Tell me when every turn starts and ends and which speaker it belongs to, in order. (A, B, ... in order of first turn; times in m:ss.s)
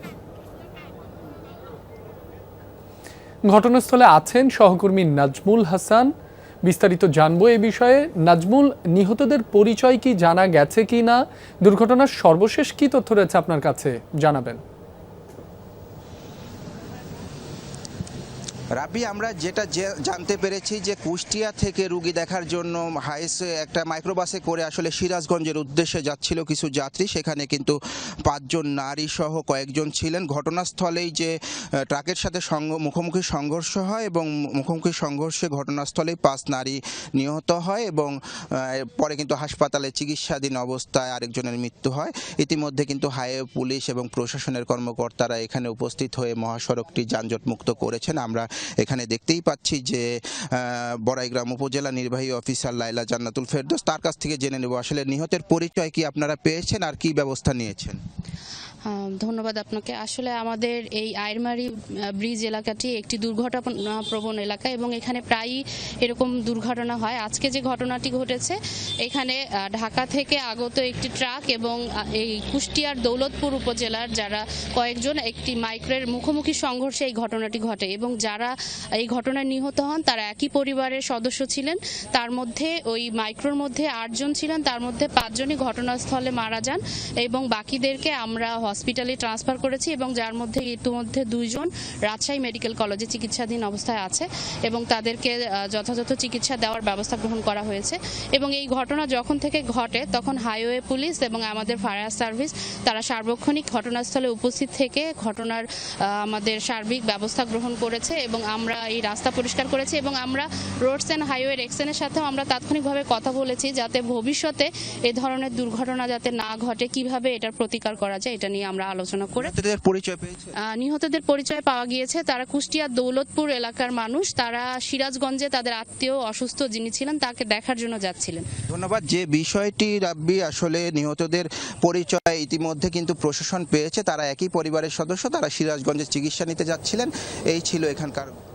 0:03.5-0:06.1 A
0:06.6-0:14.6 A
0:18.8-0:31.4 B
0:31.9-0:58.0 B
0:58.9-1:59.5 C
1:59.4-2:00.5 B
2:00.7-2:08.5 C
2:08.7-2:18.3 B